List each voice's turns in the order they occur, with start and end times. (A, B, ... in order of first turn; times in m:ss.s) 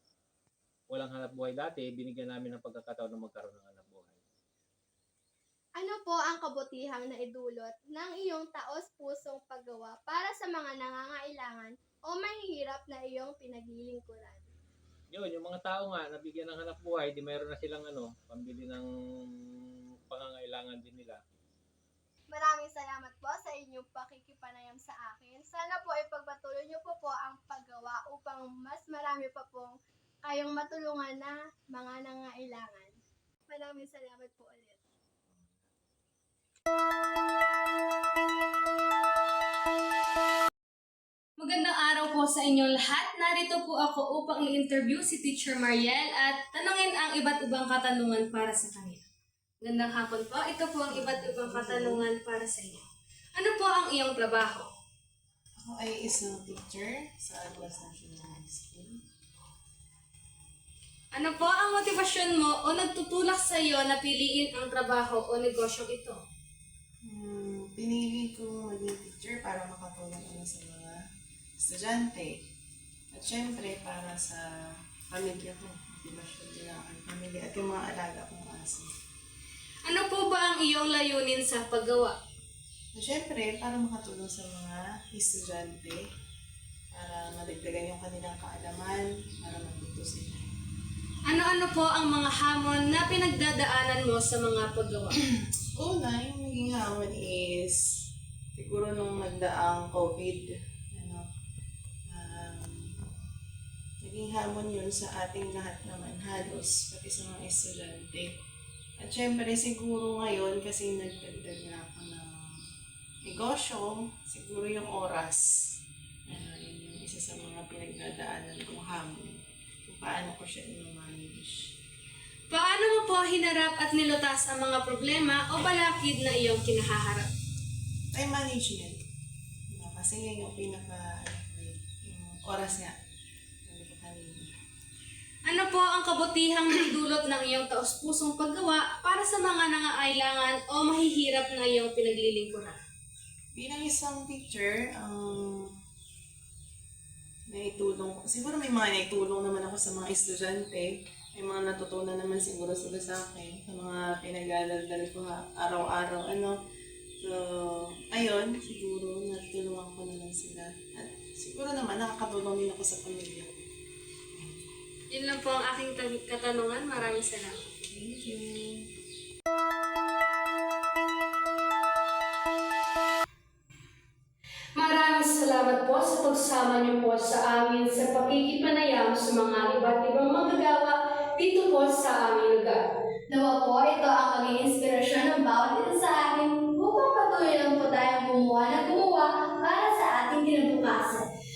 0:00.9-0:04.2 A
0:05.8-0:14.5 B
0:15.1-0:18.8 A
0:19.5-0:21.2 A
0:22.3-0:34.8 B
0:41.4-0:49.0 C
0:49.6-0:52.8 C
0:50.9-0:52.1 D
0:53.3-0:54.7 C
0:55.6-0:59.0 D
1:01.1-1:06.2 C
1:07.0-1:11.0 D
1:11.6-1:12.4 D
1:13.1-1:14.5 D
1:15.1-1:18.9 D
1:19.8-1:22.2 C
1:22.9-1:26.0 D
1:26.9-1:30.5 D
1:31.3-1:35.2 C
1:35.7-1:37.8 D
1:38.5-1:41.3 D
1:42.1-1:43.0 D
1:44.0-1:48.3 D
1:49.0-1:52.7 D
1:53.3-1:55.7 D
1:56.3-2:01.7 D
2:02.5-2:07.3 C
2:08.1-2:09.0 D
2:09.7-2:12.9 D
2:13.7-2:14.5 D
2:15.4-2:22.8 C
2:23.5-2:25.7 D
2:27.5-2:36.6 D
2:37.2-2:43.6 D
2:44.3-2:44.7 D
2:45.1-2:47.6 C
2:47.8-2:48.9 D
2:54.8-3:02.8 C
3:03.3-3:11.2 B